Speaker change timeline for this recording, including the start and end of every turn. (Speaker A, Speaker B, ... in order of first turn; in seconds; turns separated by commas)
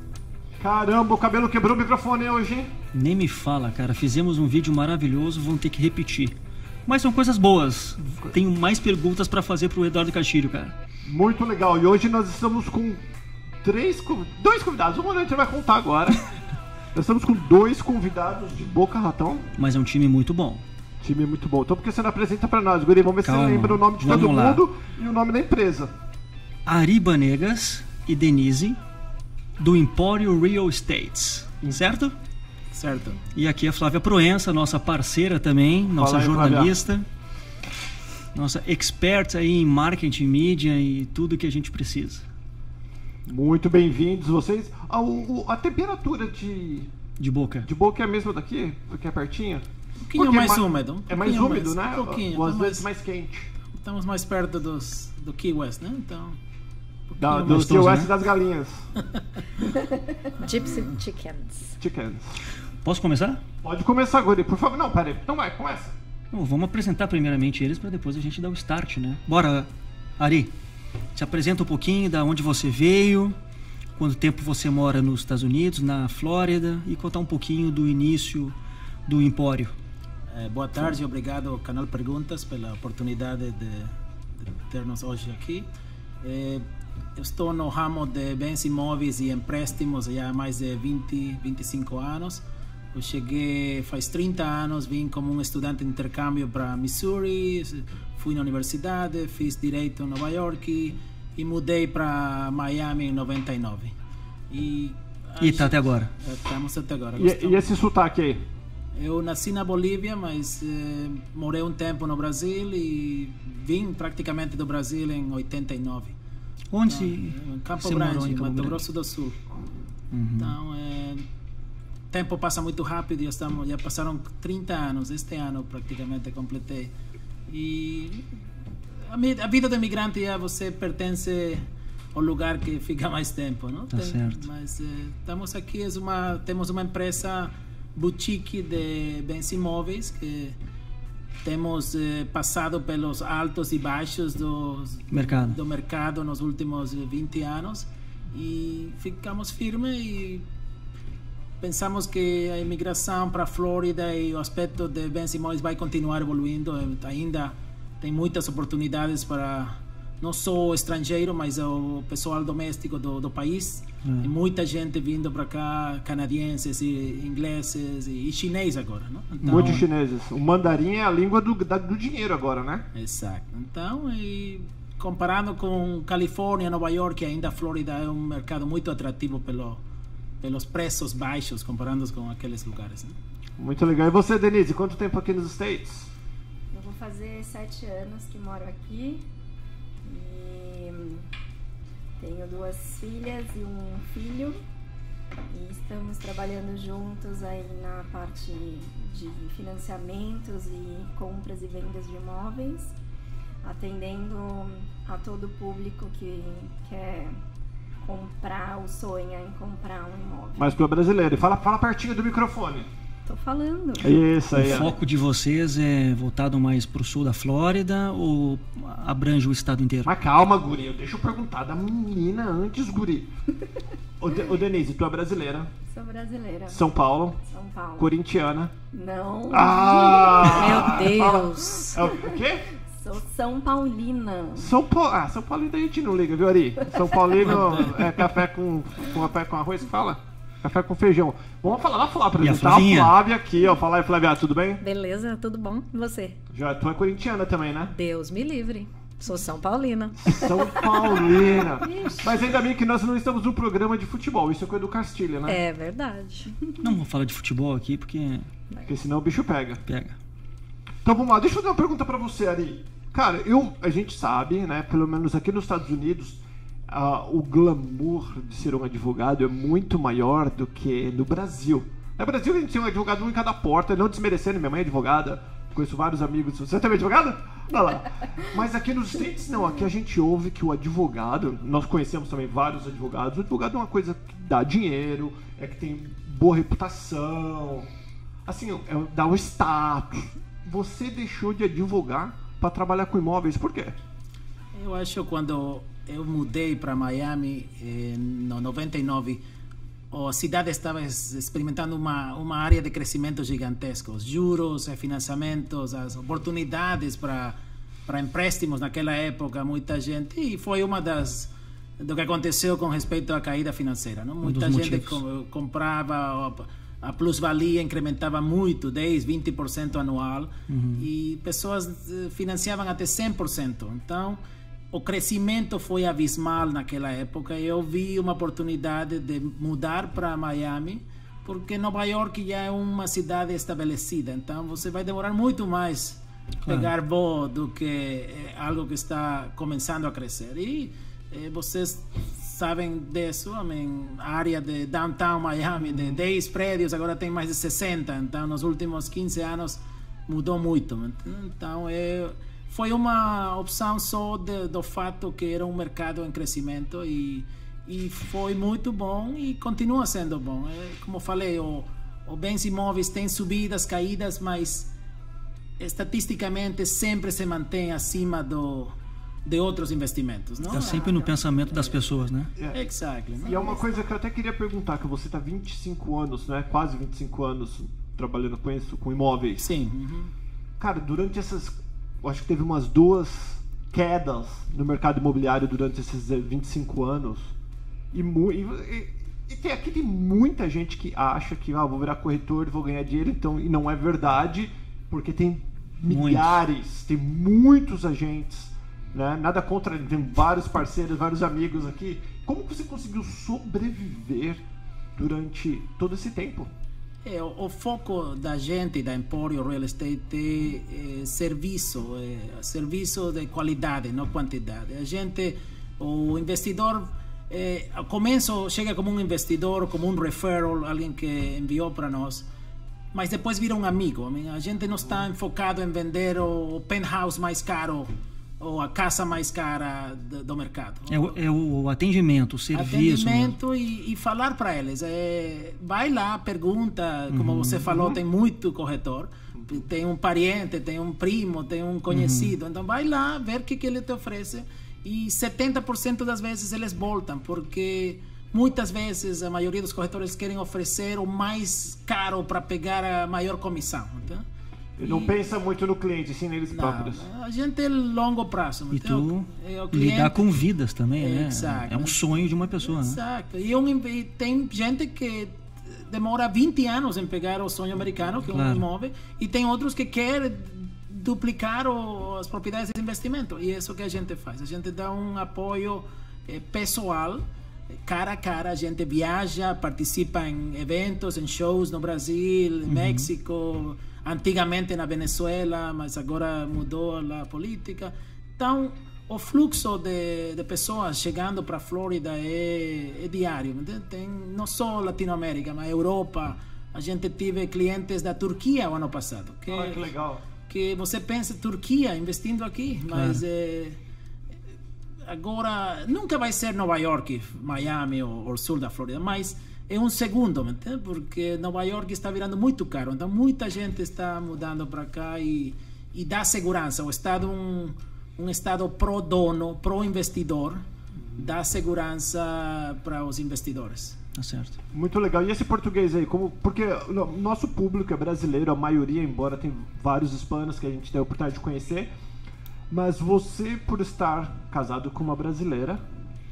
Speaker A: 0.6-2.7, Speaker B: 2.9-6.3, Speaker B: 6.9-10.7, Speaker A: 11.1-13.0, Speaker A: 13.6-16.2, Speaker A: 16.9-19.5, Speaker B: 19.6-20.6, Speaker A: 21.0-25.9, Speaker B: 23.2-24.6, Speaker B: 26.7-28.8, Speaker B: 29.6-32.1, Speaker C: 32.7-33.2, Speaker B: 33.3-37.0, Speaker A: 36.0-36.7, Speaker B: 38.3-42.3, Speaker A: 43.3-46.9, Speaker B: 47.2-47.7, Speaker A: 47.6-53.5, Speaker C: 50.0-52.9, Speaker C: 53.7-56.4, Speaker C: 57.1-57.6, Speaker A: 57.2-58.9, Speaker B: 57.4-58.1, Speaker C: 59.1-59.4, Speaker D: 60.4-61.8, Speaker A: 61.8-62.4, Speaker B: 62.8-63.4, Speaker A: 63.6-66.0, Speaker B: 66.3-70.5, Speaker B: 71.2-73.3, Speaker B: 74.0-78.5, Speaker B: 79.1-79.8, Speaker C: 80.3-85.7, Speaker C: 86.2-104.0, Speaker C: 104.5-107.7, Speaker B: 105.4-106.1, Speaker A: 107.2-108.5, Speaker C: 109.0-116.2, Speaker B: 116.7-118.8, Speaker C: 116.8-119.4, Speaker B: 120.1-120.6, Speaker C: 120.4-121.2, Speaker C: 122.1-126.9, Speaker C: 127.5-128.3, Speaker C: 129.1-140.6, Speaker B: 133.9-134.4, Speaker C: 141.4-150.5, Speaker B: 145.1-145.6, Speaker C: 151.6-169.8, Speaker B: 164.0-164.3, Speaker A: 169.4-172.9, Speaker C: 172.9-179.8, Speaker C: 180.4-183.2, Speaker A: 183.6-186.1, Speaker E: 186.7-189.2, Speaker E: 190.0-191.2, Speaker E: 192.2-194.6, Speaker E: 195.5-202.9, Speaker E: 203.6-207.4, Speaker E: 208.0-210.8, Speaker A: 210.6-212.9, Speaker E: 213.3-214.6, Speaker A: 214.0-214.9, Speaker B: 214.5-220.1, Speaker A: 220.1-223.3, Speaker A: 224.2-225.7, Speaker E: 225.9-226.8, Speaker A: 226.7-227.4, Speaker E: 227.5-228.1, Speaker A: 228.0-228.7, Speaker E: 228.9-231.0, Speaker A: 229.5-232.7, Speaker D: 230.5-232.0, Speaker E: 232.0-232.4, Speaker E: 232.9-234.7, Speaker A: 234.6-244.8, Speaker E: 237.0-237.6, Speaker B: 242.4-243.2, Speaker D: 244.8-246.4, Speaker A: 246.5-247.9, Speaker D: 247.9-251.0, Speaker A: 250.2-255.6, Speaker E: 251.1-252.5, Speaker D: 255.5-256.5, Speaker B: 256.8-258.5, Speaker A: 258.9-259.8, Speaker B: 259.9-260.2, Speaker A: 261.1-287.9, Speaker A: 288.4-294.0, Speaker C: 294.8-299.4, Speaker C: 300.1-307.6, Speaker C: 308.1-324.4, Speaker B: 314.4-315.2, Speaker B: 320.7-321.1, Speaker C: 324.9-364.9, Speaker C: 365.8-371.1, Speaker E: 370.7-372.1, Speaker B: 370.7-372.5, Speaker C: 372.7-373.6, Speaker E: 373.4-374.1, Speaker A: 373.4-379.7, Speaker C: 379.6-380.3, Speaker A: 380.8-387.5, Speaker A: 388.1-404.6, Speaker B: 396.1-396.6, Speaker A: 405.2-406.7, Speaker C: 407.2-422.4, Speaker C: 423.1-431.4, Speaker B: 431.1-433.6, Speaker C: 432.7-454.4, Speaker B: 437.3-437.9, Speaker B: 442.1-442.5, Speaker A: 455.0-457.2, Speaker C: 455.0-455.3, Speaker C: 456.7-460.6, Speaker B: 458.9-463.2, Speaker C: 461.2-477.5, Speaker B: 468.5-468.9, Speaker C: 478.0-500.1, Speaker B: 482.9-483.3, Speaker A: 499.7-500.4, Speaker C: 500.7-504.0, Speaker B: 503.1-503.4, Speaker C: 505.2-520.8, Speaker C: 521.4-524.2, Speaker B: 524.4-524.8, Speaker A: 524.9-532.1, Speaker A: 532.9-536.0